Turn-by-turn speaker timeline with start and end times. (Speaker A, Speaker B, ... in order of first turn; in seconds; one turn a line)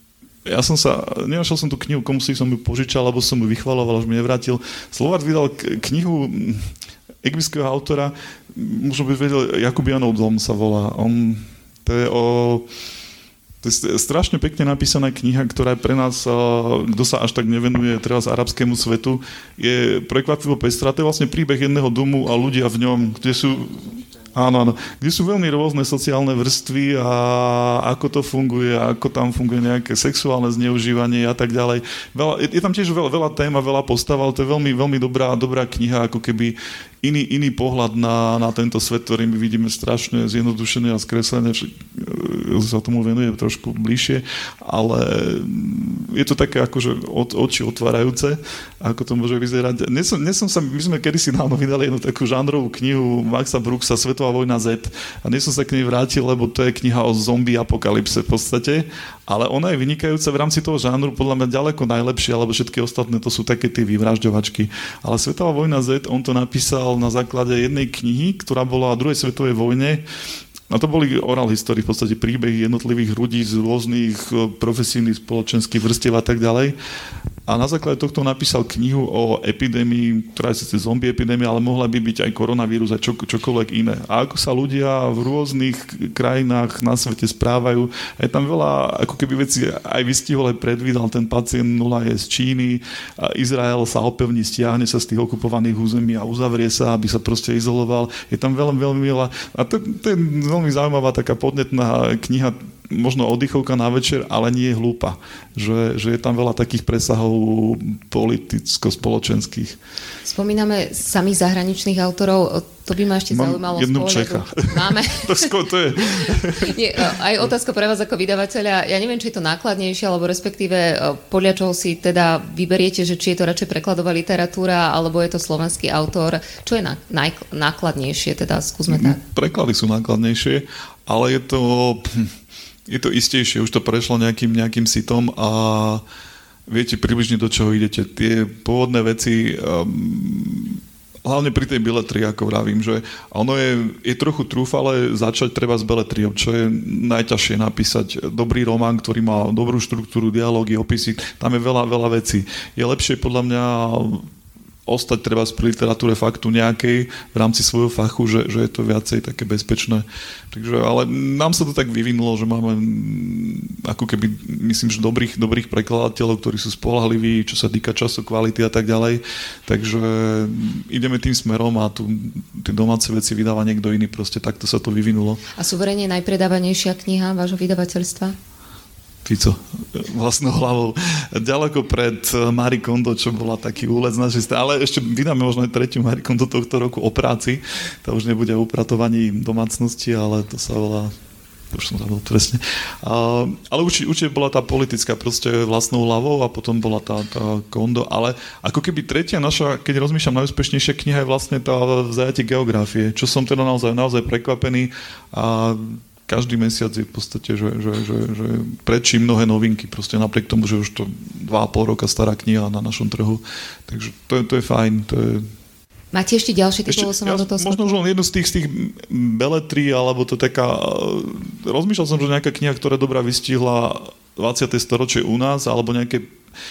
Speaker A: 0.5-6.7
Speaker A: 7.2-12.7
Speaker A: 13.6-70.0
Speaker A: 70.7-76.8
Speaker A: 77.5-109.8
Speaker B: 110.3-115.5
Speaker A: 113.3-116.7
Speaker B: 116.2-129.2
Speaker A: 128.9-132.3
Speaker A: 132.9-136.0
Speaker A: 136.7-154.3
Speaker A: 154.9-175.4
Speaker B: 175.6-178.4
Speaker A: 179.2-191.2
Speaker A: 191.7-215.5
Speaker B: 216.1-217.8
Speaker A: 216.9-226.3